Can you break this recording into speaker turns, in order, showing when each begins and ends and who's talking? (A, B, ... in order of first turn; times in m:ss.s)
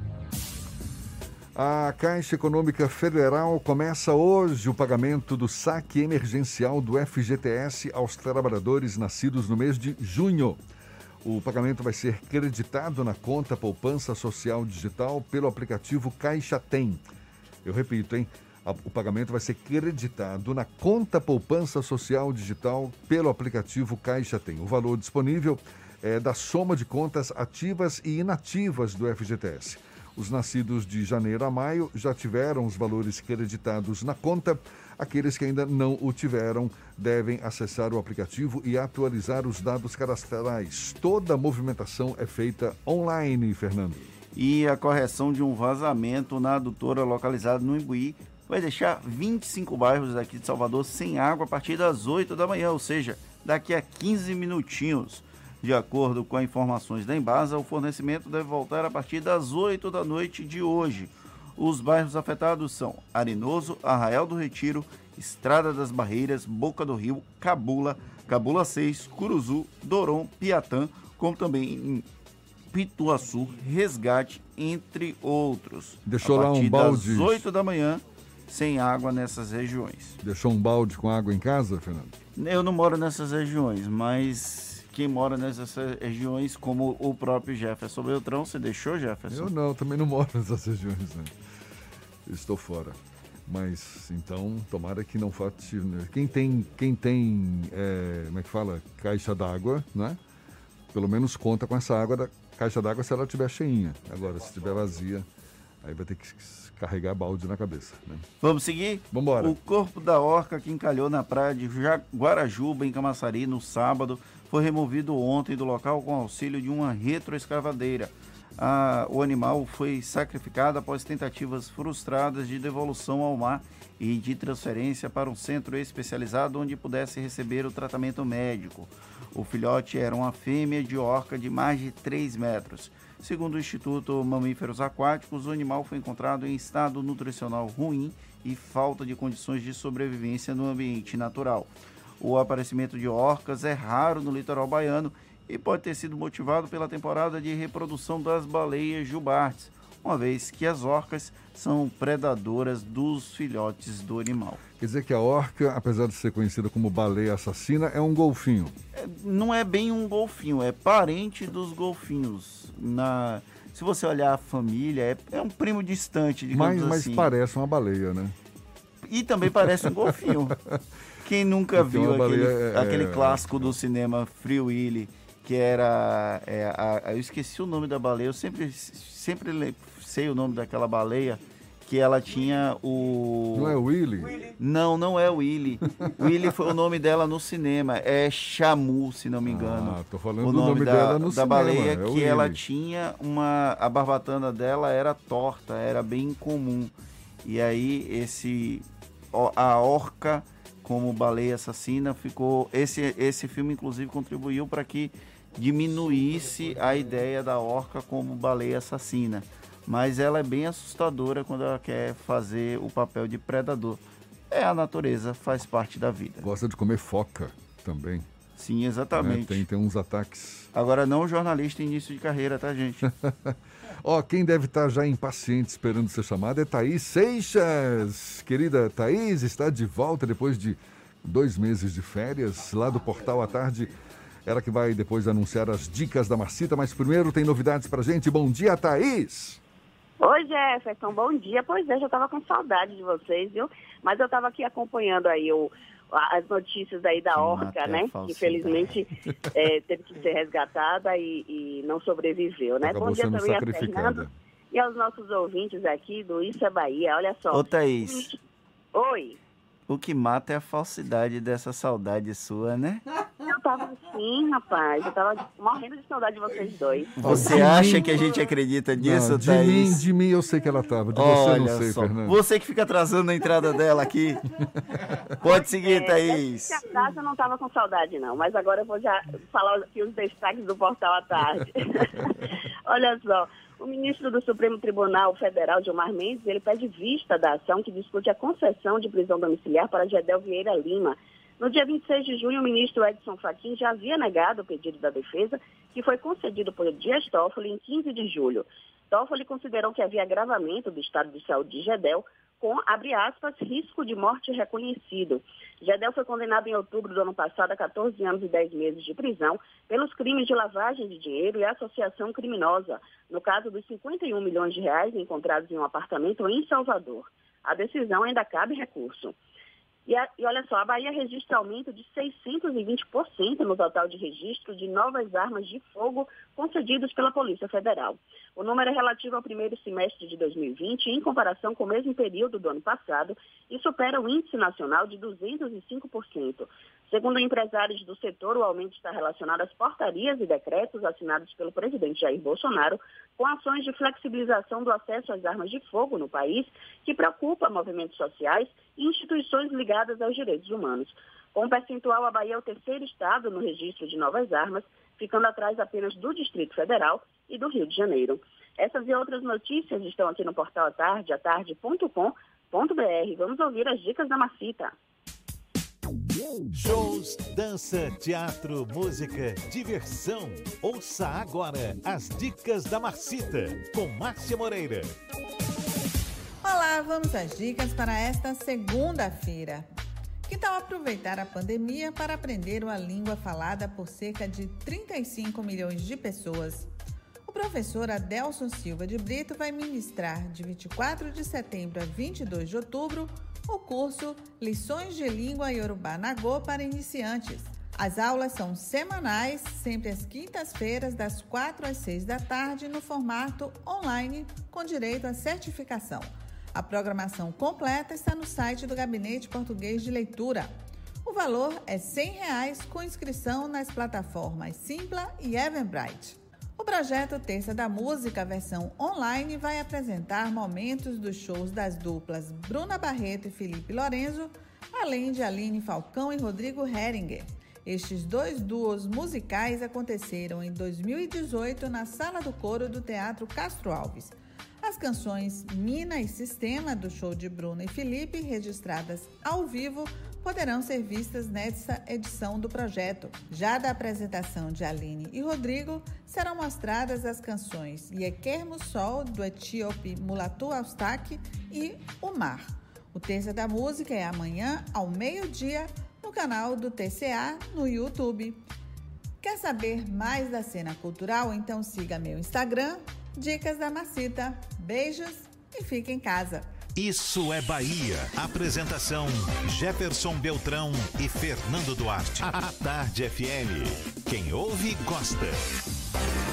0:01.6-0:10.6 A
0:11.2-0:17.0 A
0:17.6-0:44.1 A
0:44.3-1:12.1 B
1:12.7-1:20.2 B
1:16.0-1:17.4 A
1:20.2-1:22.1 A
1:22.4-1:29.5 B
1:29.3-1:31.3 A
1:32.3-1:40.2 A
1:40.9-1:45.3 A
1:45.8-1:48.2 A
1:48.4-2:34.6 B
1:49.1-1:49.6 A
2:34.8-2:38.8 A
2:38.9-2:47.3 B
2:46.5-2:48.3 A
2:49.0-2:50.6 B
2:51.2-3:03.8 B
2:51.7-2:53.7 A
3:03.6-3:04.4 A
3:04.5-3:36.4 B
3:09.4-3:12.6 A
3:36.4-3:38.3 A
3:38.6-3:39.6 B
3:39.1-3:40.7 A
3:40.7-3:43.0 B
3:43.0-3:53.9 A
3:54.4-3:59.6 A
4:00.2-4:18.4 C
4:07.3-4:08.9 B
4:12.8-4:14.3 A
4:17.5-4:18.3 B
4:18.9-4:19.4 C
4:19.9-4:23.0 B
4:23.4-4:27.6 C
4:27.2-4:30.0 B
4:27.2-4:28.2 A
4:29.0-4:32.4 A
4:31.1-4:34.4 B
4:35.4-4:36.8 B
4:35.6-5:19.3 C
5:20.1-6:04.9 C
6:06.7-6:15.2 D
6:16.6-6:19.9 E
6:20.5-6:26.9 E
6:27.4-6:50.7 E
6:51.2-7:38.6 E
7:39.4-7:46.7 E
7:47.0-7:55.6 D